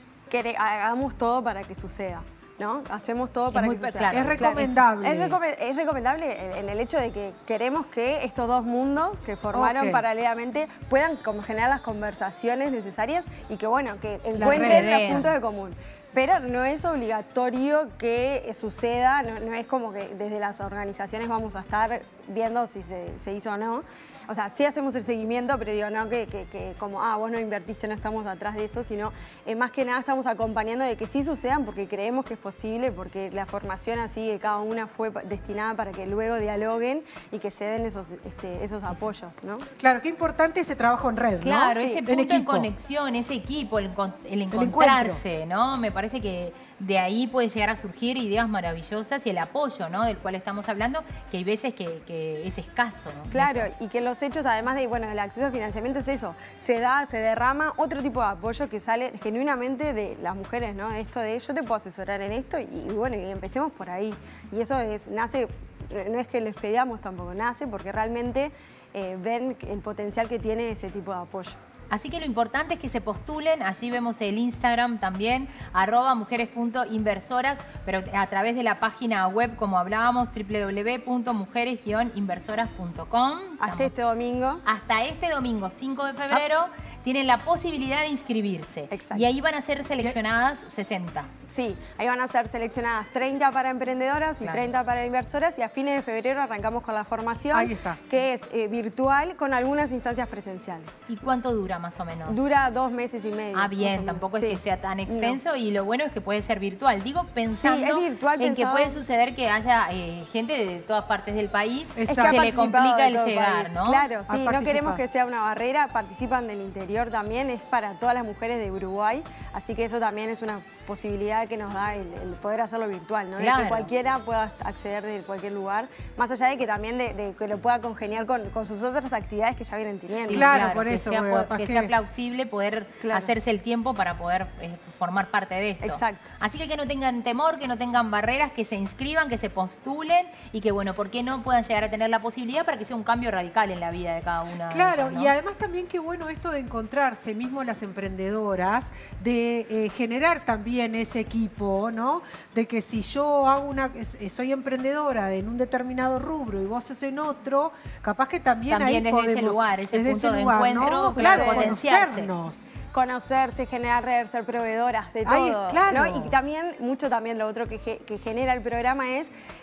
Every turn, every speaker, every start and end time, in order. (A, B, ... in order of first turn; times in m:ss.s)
0:00.3-0:39.7 A
0:03.5-0:04.4 B
0:04.1-0:05.4 C
0:09.5-0:10.0 C
0:14.4-0:15.3 B
0:14.4-0:14.9 C
0:39.8-0:42.7 C
0:41.4-0:53.7 B
0:41.8-0:42.0 A
0:44.5-0:45.2 C
0:53.3-1:11.6 A
1:11.9-1:23.9 B
1:23.6-1:24.6 A
1:24.6-1:31.3 B
1:28.9-1:29.3 A
1:31.5-1:40.9 A
1:34.4-1:34.7 B
1:37.5-1:38.0 C
1:41.1-1:42.4 B
1:42.3-1:45.4 A
1:43.5-1:54.1 B
1:47.6-1:49.0 A
1:52.0-1:52.4 C
1:52.1-2:10.5 A
1:54.3-1:55.0 C
2:03.4-2:03.9 B
2:10.3-2:25.3 B
2:10.3-2:11.9 C
2:13.0-2:13.3 A
2:15.8-2:16.3 A
2:24.7-2:42.7 C
2:38.7-2:42.3 B
2:40.8-2:41.9 A
2:42.9-2:49.3 A
2:45.2-2:46.4 C